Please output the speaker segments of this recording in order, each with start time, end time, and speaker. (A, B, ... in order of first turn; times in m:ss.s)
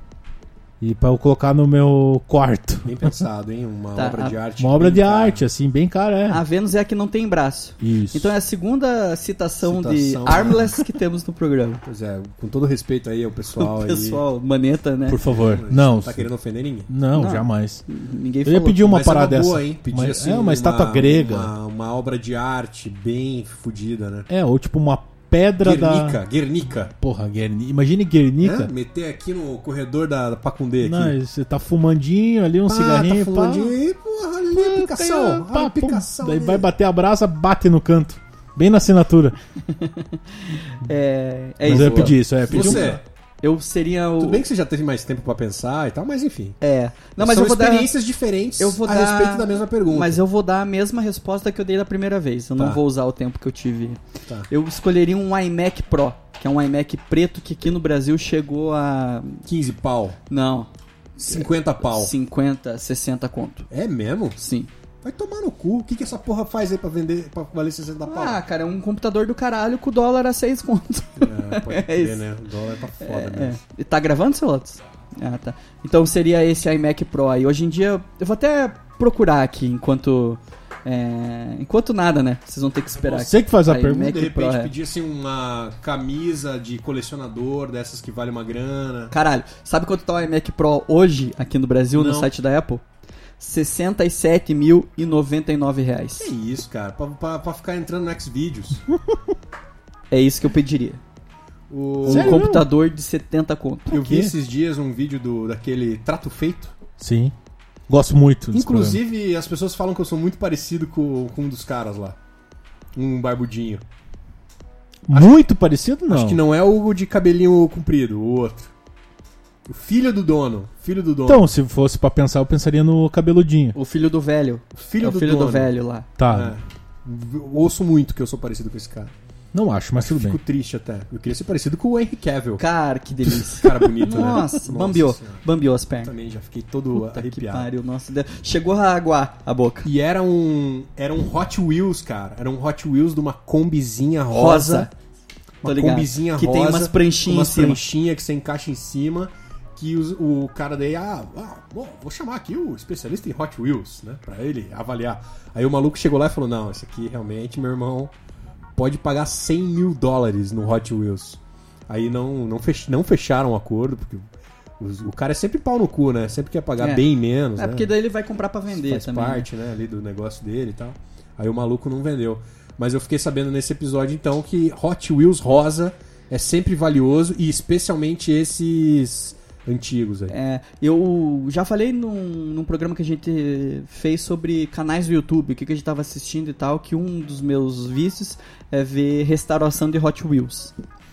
0:00.8-0:03.1 A
0:02.8-0:05.5 B
0:04.0-0:04.4 C
0:04.6-0:06.4 A
0:06.3-0:11.8 C
0:07.8-0:08.3 A
0:09.6-0:10.9 B
0:11.8-0:14.2 B
0:13.6-0:15.2 C
0:15.1-0:16.3 A
0:15.2-0:16.9 B
0:16.9-0:17.8 A
0:17.1-0:18.8 C
0:18.4-0:21.5 A
0:18.7-0:24.3 B
0:24.3-0:26.2 A
0:25.6-0:26.9 B
0:27.0-0:28.7 A
0:28.4-0:31.2 B
0:30.8-0:33.7 A
0:32.7-0:36.7 B
0:34.5-0:39.4 A
0:39.7-0:44.4 C
0:41.6-0:43.0 A
0:41.6-0:43.0 B
0:44.2-0:46.6 B
0:46.6-0:47.9 C
0:47.2-0:50.2 B
0:48.6-0:59.4 C
0:52.6-0:52.8 B
0:59.5-1:00.2 B
1:00.3-1:03.7 C
1:01.2-1:02.1 B
1:03.7-1:04.4 B
1:04.4-1:04.7 C
1:05.0-1:08.4 B
1:08.0-1:12.2 C
1:11.2-1:13.6 B
1:13.0-1:24.7 C
1:23.0-1:24.1 A
1:23.9-1:29.1 B
1:29.1-1:32.8 C
1:31.9-1:32.3 B
1:33.4-1:36.3 C
1:36.2-1:38.8 B
1:40.1-1:41.0 C
1:41.7-1:42.5 B
1:42.0-1:44.0 C
1:42.1-1:42.7 A
1:43.9-1:46.8 B
1:44.0-1:44.3 A
1:47.0-1:47.3 A
1:47.9-1:49.0 A
1:48.5-1:52.2 B
1:52.9-1:53.8 B
1:55.1-1:56.4 A
1:55.1-1:55.4 B
1:56.1-1:58.7 B
1:59.6-2:01.5 B
2:01.2-2:03.8 A
2:03.8-2:06.1 C
2:04.8-2:05.7 B
2:06.2-2:06.5 A
2:06.3-2:09.1 B
2:09.5-2:10.4 A
2:10.0-2:12.6 B
2:12.6-2:16.1 C
2:13.3-2:15.4 B
2:16.0-2:17.7 B
2:16.9-2:19.9 C
2:19.8-2:24.9 B
2:24.3-2:24.9 C
2:25.6-2:38.1 B
2:25.6-2:27.8 C
2:38.8-2:44.2 B
2:44.8-2:47.9 B
2:46.8-2:49.5 C
2:48.7-3:00.4 B
3:00.3-3:10.7 C